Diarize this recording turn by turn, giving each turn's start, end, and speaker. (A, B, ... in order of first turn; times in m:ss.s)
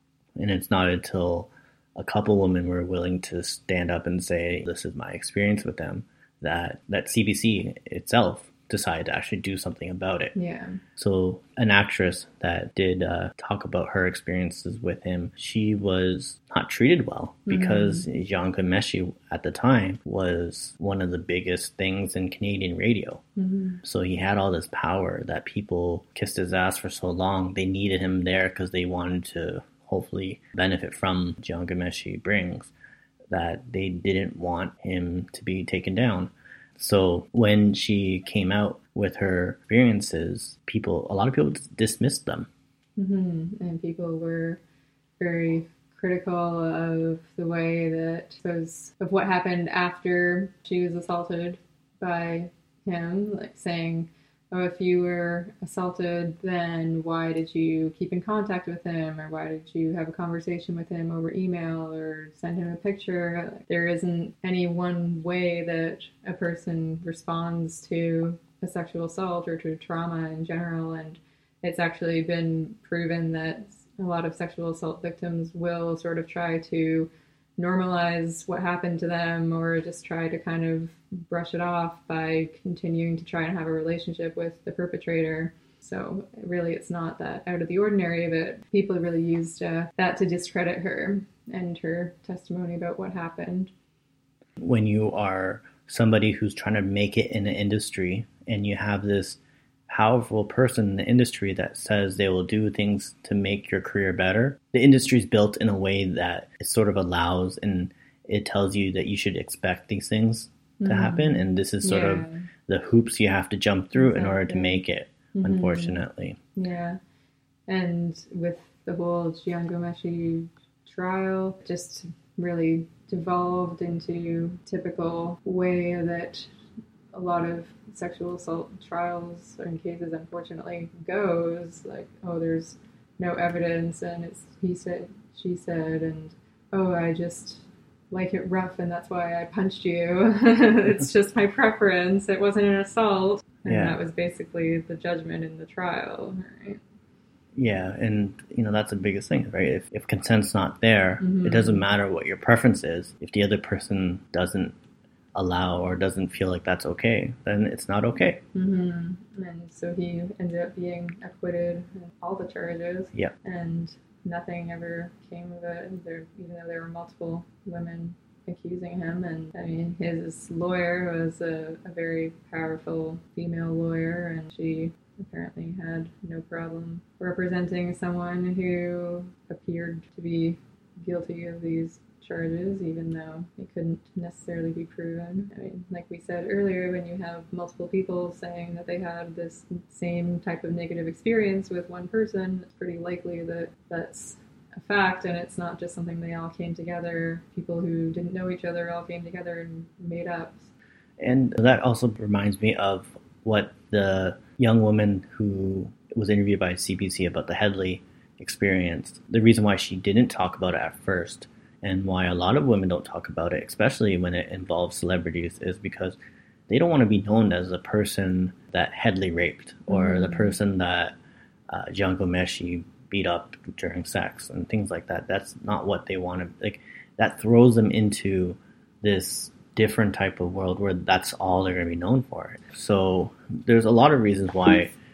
0:00.4-0:10.3 A
0:10.3-0:10.8 B
0:11.0-0:23.2 A
0:17.5-0:18.0 B
0:23.4-0:23.8 B
0:23.8-0:32.7 A
0:33.3-0:42.5 A
0:43.0-0:44.6 B
0:45.2-1:33.7 B
1:34.6-1:56.4 A
1:50.8-1:52.4 B
1:54.0-1:54.8 B
1:55.3-1:56.0 B
1:56.6-1:57.0 B
1:57.7-2:06.5 B
2:07.1-2:26.8 B
2:23.6-2:24.0 A
2:27.6-2:34.7 A
2:31.2-2:31.8 B
2:35.3-2:38.4 A
2:38.5-3:20.7 B
3:21.2-3:36.2 A
3:36.7-3:41.1 A
3:39.9-3:40.6 B
3:41.7-3:54.9 A